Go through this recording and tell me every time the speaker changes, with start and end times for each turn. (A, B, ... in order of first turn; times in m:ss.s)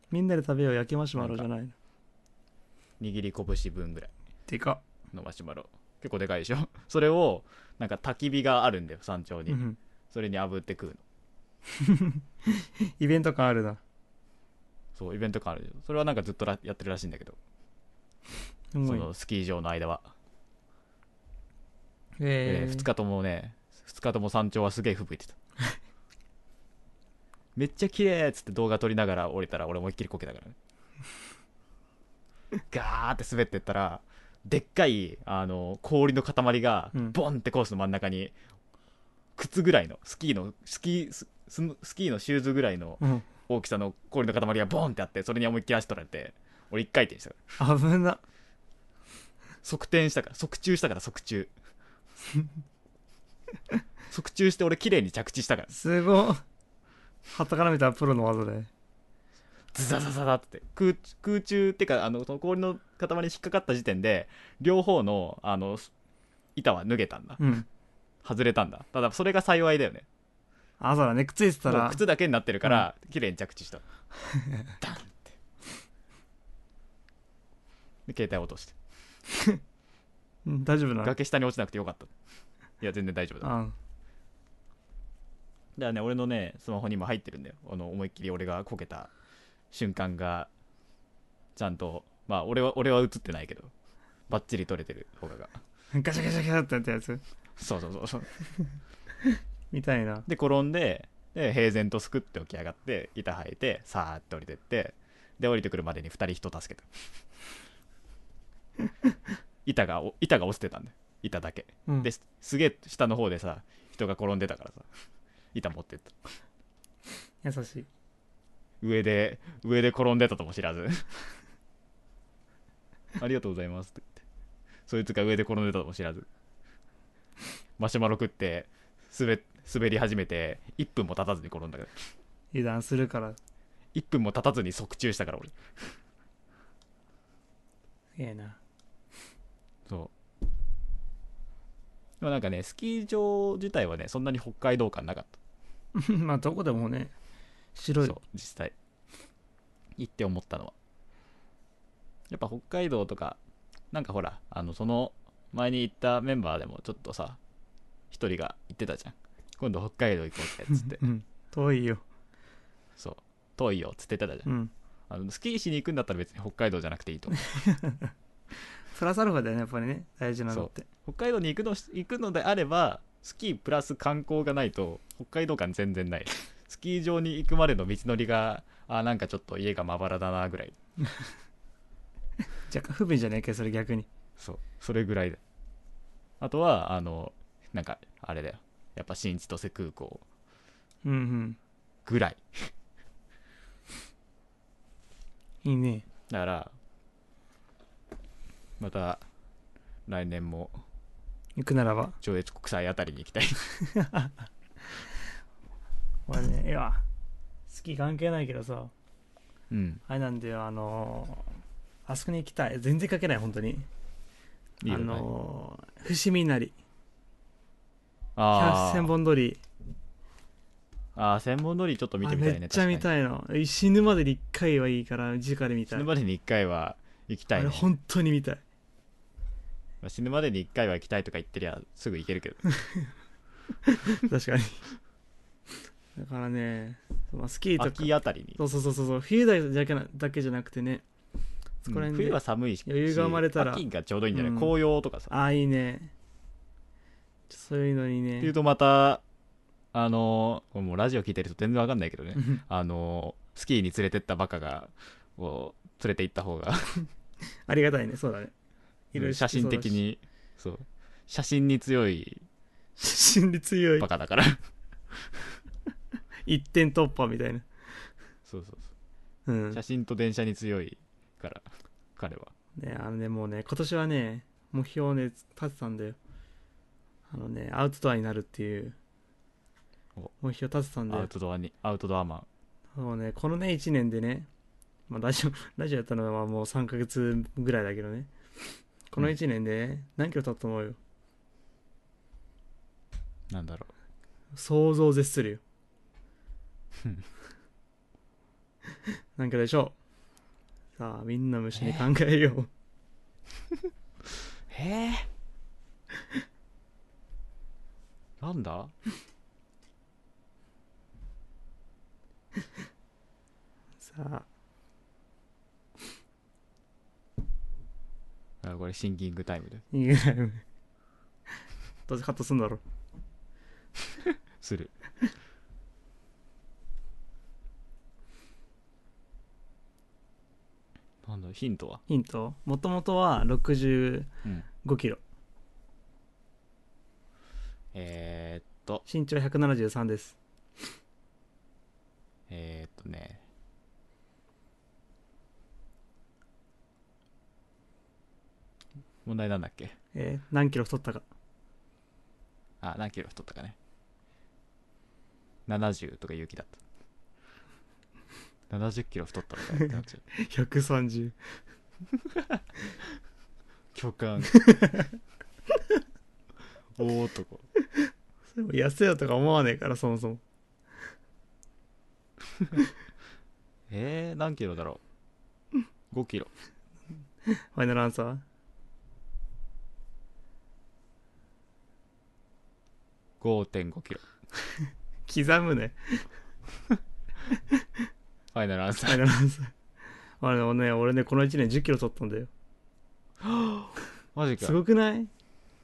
0:00.1-0:01.7 A
0:01.2-0:01.5 B
0:03.0-0:04.1 B
0:04.5-0:04.8 A
0:05.1-0:11.0 B
0:09.5-0:09.8 A
0:11.7-0:13.8 A
0:14.9-0:17.4 B
0:18.7-0:19.1 A
0:18.8-0:20.1 B
0:22.2-0:22.9 A
0:22.4-0:25.4 B
0:27.5-0:30.6 B
0:32.7-0:38.3 B
0:39.4-0:47.4 B
0:43.0-0:43.2 A
0:47.6-0:48.2 A
0:49.6-0:51.5 B
0:54.1-0:55.7 B
0:55.7-0:56.4 A
0:57.3-0:58.7 A
0:59.7-1:05.9 B
1:06.6-1:07.4 B
1:07.4-1:07.6 A
1:08.2-1:10.0 B
1:10.8-1:12.0 A
1:11.7-1:13.8 B
1:14.4-1:14.6 A
1:14.8-1:15.3 B
1:18.1-1:18.8 B
1:19.3-1:19.6 A
1:20.4-1:21.1 A
1:21.0-1:22.1 B
1:22.8-1:23.5 B
1:23.4-1:23.8 A
1:25.8-1:29.1 B
1:29.7-1:30.5 B
1:31.6-1:33.7 B
1:34.3-1:35.6 B
1:35.9-1:37.2 A
1:37.6-1:38.3 B
1:39.2-1:40.2 A
1:40.2-1:46.9 B
1:49.6-1:54.9 B
1:55.5-1:56.3 B
1:57.4-1:57.9 A
1:58.8-2:01.1 B
2:03.2-2:04.2 B
2:04.9-2:06.3 B
2:07.8-2:11.9 B
2:12.5-2:13.4 A
2:13.9-2:15.5 B
2:18.2-2:18.6 A
2:19.9-2:20.1 B
2:22.2-2:25.4 B
2:25.9-2:27.1 A
2:27.7-2:28.2 A
2:28.0-2:28.7 B
2:30.0-2:30.7 B
2:32.3-2:33.4 B
2:33.9-2:37.4 B
2:38.1-2:41.0 B
2:40.7-2:42.0 A
2:43.0-2:44.5 B
2:44.4-2:44.7 A
2:45.1-2:47.5 B
2:47.5-2:48.1 A
2:48.9-2:50.8 A
2:50.5-3:00.8 B
3:02.7-3:04.1 A
3:04.4-3:05.4 B
3:06.4-3:10.2 B
3:11.0-3:11.6 A
3:12.0-3:12.7 B
3:15.6-3:16.0 A
3:16.3-3:16.7 B
3:18.8-3:19.2 B
3:20.1-3:20.8 B
3:21.6-3:22.2 A
3:22.2-3:23.7 B
3:23.8-3:25.1 A
3:26.3-3:27.0 A
3:27.7-3:28.9 A
3:29.7-3:30.0 B
3:30.1-3:31.5 A
3:32.0-3:33.9 A
3:34.8-3:35.3 B
3:34.9-3:36.7 A
3:38.4-3:39.1 B
3:38.5-3:39.6 A
3:41.1-3:43.1 B
3:42.2-3:46.1 A
3:45.9-3:47.9 B
3:47.5-3:48.6 A
3:50.0-3:52.6 B
3:52.8-3:53.1 A
3:53.8-3:54.8 A
3:56.2-4:01.0 A
3:57.8-3:58.6 B
4:01.8-4:04.7 A
4:01.9-4:05.3 B
4:05.3-4:06.1 A
4:07.5-4:08.5 A
4:08.4-4:09.2 B
4:09.9-4:17.0 B
4:12.4-4:12.6 A
4:17.6-4:18.5 A
4:19.1-4:20.0 A
4:19.1-4:22.4 B
4:23.0-4:24.1 A
4:24.0-4:24.6 B
4:26.4-4:28.0 A
4:28.5-4:28.9 B
4:29.4-4:29.8 A
4:29.7-4:32.5 B
4:32.8-4:36.2 A
4:37.3-4:39.0 A
4:40.4-4:41.3 A
4:41.1-4:42.5 B
4:42.9-4:44.5 A
4:45.1-4:51.0 A
4:53.5-4:53.9 B
4:54.5-4:55.6 A
4:59.4-5:00.0 A
5:01.0-5:02.7 A
5:01.8-5:02.0 B
5:04.7-5:05.3 B
5:08.4-5:08.9 B
5:14.0-5:14.4 A
5:18.6-5:19.8 B
5:19.9-5:20.6 A
5:22.1-5:22.8 A
5:24.6-5:24.9 B
5:31.2-5:32.0 B
5:32.1-5:34.3 A
5:34.8-5:35.2 A
5:37.9-5:39.0 B
5:39.0-5:40.4 A
5:42.5-5:43.4 B
5:49.2-5:49.9 B
5:50.1-5:51.2 A
5:52.8-5:53.8 B
5:55.7-5:56.8 B
5:58.7-6:00.2 B
6:00.3-6:01.4 A
6:03.9-6:04.6 B
6:04.5-6:05.1 A
6:07.0-6:07.6 B
6:08.0-6:10.4 A
6:13.9-6:15.0 B
6:16.1-6:16.5 B
6:17.4-6:18.4 A
6:23.4-6:24.2 B
6:25.3-6:26.3 A
6:27.5-6:27.8 A
6:28.5-6:29.2 B
6:29.0-6:29.7 A
6:30.4-6:32.5 A
6:33.4-6:34.8 B
6:34.6-6:35.3 A